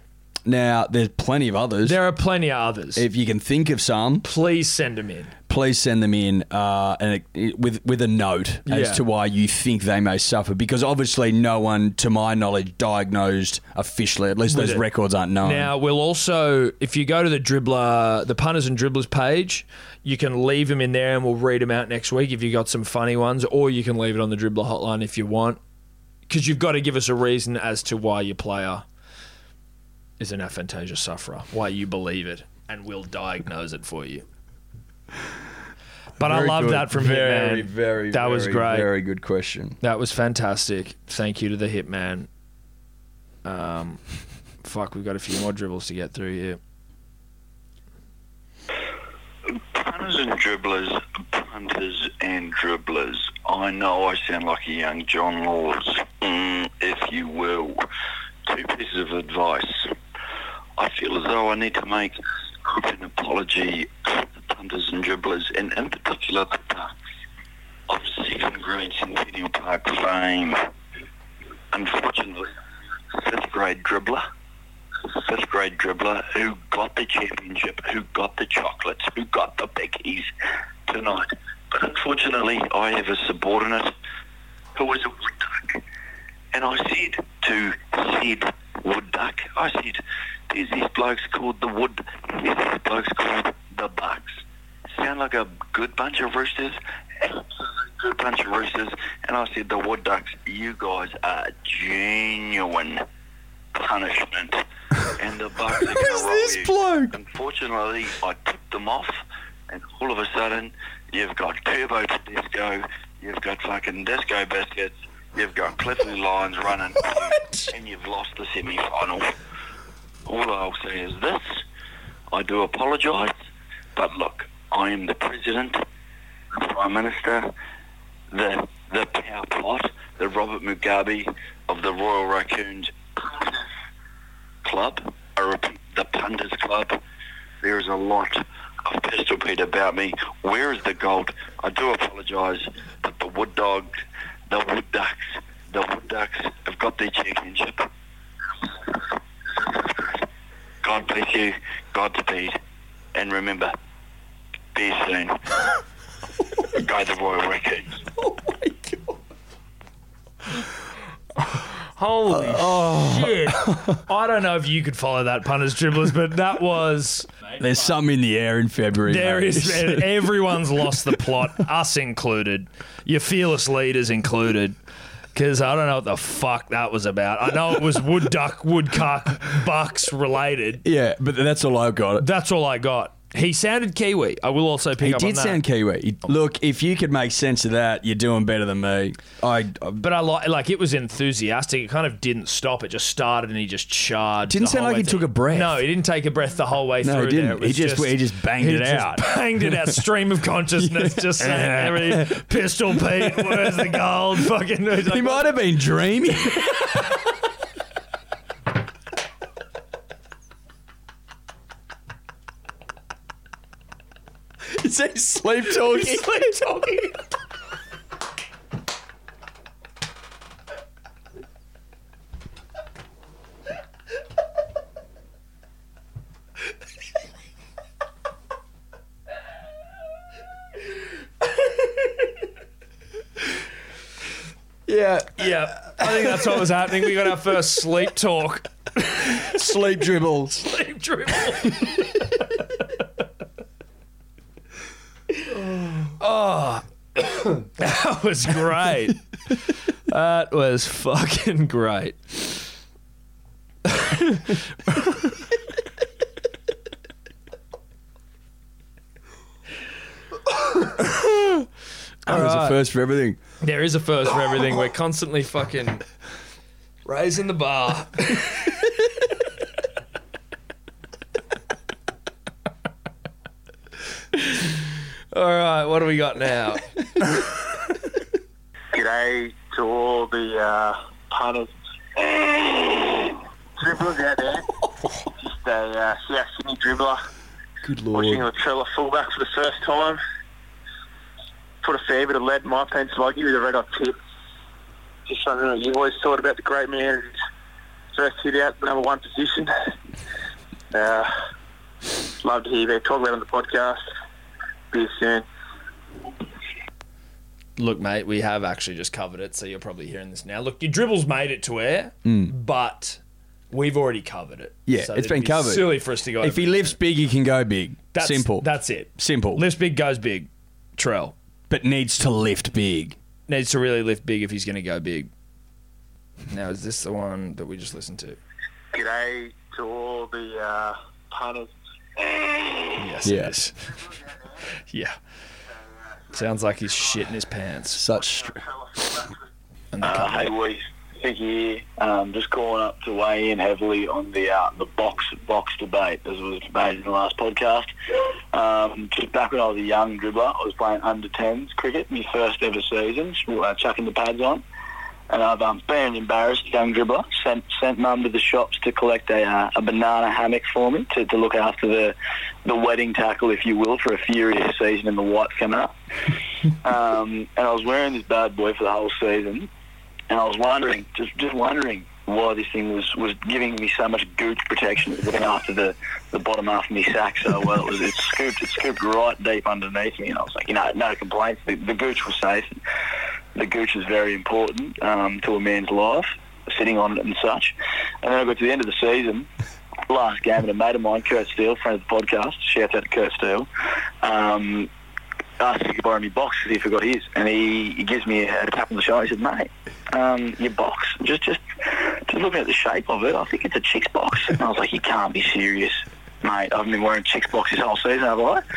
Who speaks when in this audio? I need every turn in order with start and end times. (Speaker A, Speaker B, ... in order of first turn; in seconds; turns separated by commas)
Speaker A: 0.5-2.0, Speaker B: 1.8-3.1, Speaker A: 3.0-4.3, Speaker B: 4.2-5.3, Speaker A: 5.5-15.7, Speaker B: 8.7-9.0, Speaker B: 14.5-14.9, Speaker B: 15.4-25.6, Speaker B: 26.3-28.9, Speaker B: 30.2-34.2, Speaker A: 36.2-39.8, Speaker B: 36.2-38.9, Speaker B: 39.8-42.3, Speaker B: 43.5-44.0, Speaker B: 44.6-46.6, Speaker C: 49.5-57.8, Speaker C: 58.5-59.9, Speaker C: 60.8-66.9, Speaker C: 67.9-70.6, Speaker C: 71.7-72.5, Speaker C: 73.1-74.2, Speaker C: 75.1-80.3, Speaker C: 80.9-83.9, Speaker C: 84.8-85.8, Speaker C: 86.5-94.4, Speaker C: 94.9-97.4, Speaker C: 98.0-103.0, Speaker C: 103.7-104.6, Speaker C: 105.2-119.3, Speaker A: 105.8-107.2, Speaker C: 120.3-121.6, Speaker C: 122.3-123.3, Speaker C: 124.0-125.8, Speaker C: 126.5-127.5, Speaker C: 128.3-133.6, Speaker C: 134.6-137.0, Speaker C: 137.6-143.9, Speaker C: 144.5-147.9, Speaker C: 149.6-150.2, Speaker C: 150.8-152.6, Speaker C: 153.1-153.7, Speaker C: 154.7-155.4, Speaker C: 156.8-158.0, Speaker A: 158.2-159.2, Speaker B: 162.0-167.5, Speaker A: 162.3-164.0, Speaker A: 167.6-170.3, Speaker B: 169.1-174.8, Speaker B: 175.3-180.8, Speaker A: 180.8-182.3, Speaker B: 182.2-185.6, Speaker A: 185.0-190.0, Speaker B: 190.0-205.6, Speaker A: 194.5-195.8, Speaker A: 197.0-200.0, Speaker A: 200.8-202.4, Speaker A: 203.0-203.9, Speaker A: 205.1-206.8, Speaker A: 214.7-216.7, Speaker B: 215.8-217.1, Speaker A: 234.9-236.9, Speaker B: 235.3-239.7, Speaker A: 239.3-240.7, Speaker B: 240.6-242.2, Speaker B: 246.1-249.2, Speaker B: 250.1-252.3, Speaker B: 253.9-254.6, Speaker B: 262.3-262.8, Speaker A: 262.3-263.4, Speaker B: 263.6-266.0, Speaker B: 267.1-268.7, Speaker B: 274.4-274.7, Speaker B: 275.3-276.9, Speaker D: 278.9-281.7, Speaker D: 282.2-284.6, Speaker D: 285.4-287.2, Speaker A: 287.8-288.5, Speaker D: 288.1-290.2, Speaker D: 291.8-294.2, Speaker D: 295.3-297.3, Speaker D: 298.1-299.7, Speaker D: 300.9-301.3, Speaker D: 302.4-304.0, Speaker D: 304.9-305.4, Speaker B: 307.8-313.2, Speaker A: 312.2-312.5, Speaker B: 313.7-317.0, Speaker A: 314.9-319.6, Speaker B: 318.1-321.4, Speaker A: 321.7-323.2, Speaker B: 323.5-325.3, Speaker B: 326.5-328.4, Speaker D: 328.9-331.7, Speaker B: 333.0-333.8, Speaker A: 333.2-333.6, Speaker B: 334.9-335.1, Speaker B: 336.3-338.1, Speaker A: 337.9-338.6, Speaker B: 339.9-340.4, Speaker E: 340.0-347.9, Speaker E: 348.5-354.6, Speaker E: 355.3-369.7, Speaker E: 370.3-382.8, Speaker E: 383.5-389.5, Speaker E: 390.1-393.7, Speaker E: 394.2-394.9, Speaker E: 395.6-408.6